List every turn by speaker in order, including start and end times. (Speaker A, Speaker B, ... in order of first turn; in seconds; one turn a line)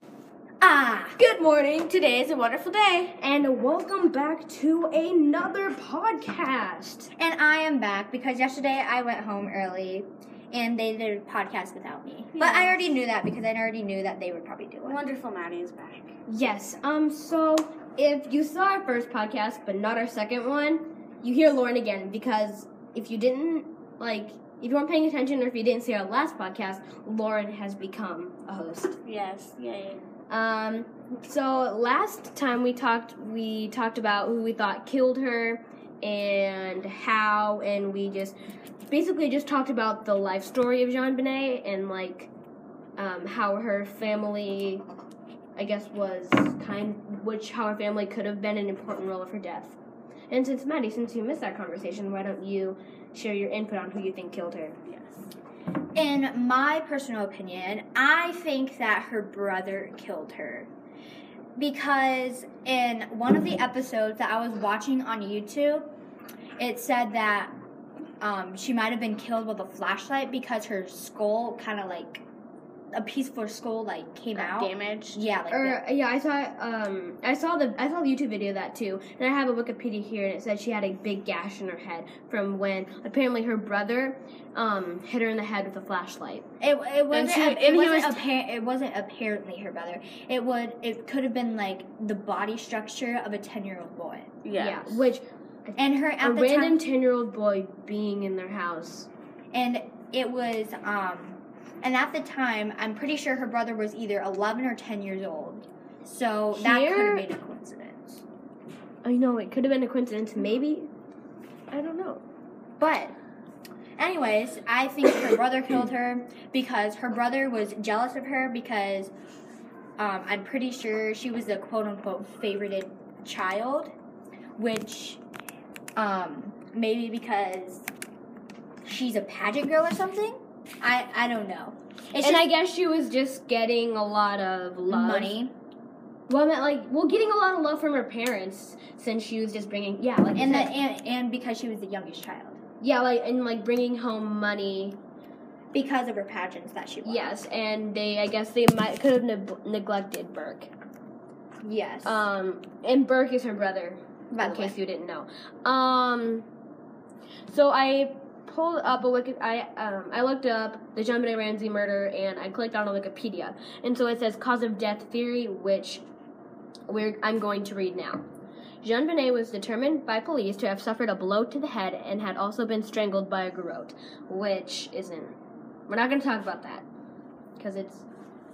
Speaker A: 0.6-1.2
Speaker B: 1.2-1.9
Speaker C: 1.8-3.1
Speaker B: 3.2-7.1
Speaker A: 7.2-15.0
Speaker C: 12.3-12.8
Speaker C: 14.8-16.1
Speaker B: 16.3-29.0
Speaker C: 29.1-30.0
Speaker B: 30.3-38.4
Speaker B: 38.9-42.3
Speaker B: 43.0-44.9
Speaker B: 45.6-49.8
Speaker B: 50.3-54.8
Speaker A: 56.0-60.7
Speaker A: 61.6-65.9
Speaker A: 66.6-67.5
Speaker A: 68.2-72.2
Speaker A: 72.9-75.8
Speaker C: 74.3-75.2
Speaker B: 75.5-86.5
Speaker A: 86.6-94.3
Speaker C: 87.1-88.2
Speaker C: 94.5-95.0
Speaker B: 94.6-99.1
Speaker A: 95.8-96.8
Speaker A: 99.5-108.2
Speaker B: 106.5-107.3
Speaker B: 109.0-110.9
Speaker B: 111.7-112.2
Speaker A: 112.8-113.2
Speaker A: 114.0-119.1
Speaker A: 120.0-123.9
Speaker A: 124.6-125.2
Speaker A: 126.0-127.9
Speaker A: 128.8-132.5
Speaker B: 132.2-135.4
Speaker A: 134.9-135.5
Speaker B: 136.3-140.8
Speaker A: 140.3-142.6
Speaker B: 142.8-145.0
Speaker A: 145.7-147.3
Speaker B: 147.0-150.7
Speaker A: 151.6-152.3
Speaker B: 152.1-156.5
Speaker A: 154.3-154.8
Speaker B: 157.5-166.1
Speaker B: 166.9-168.3
Speaker B: 168.8-175.4
Speaker B: 175.9-176.9
Speaker B: 177.6-178.1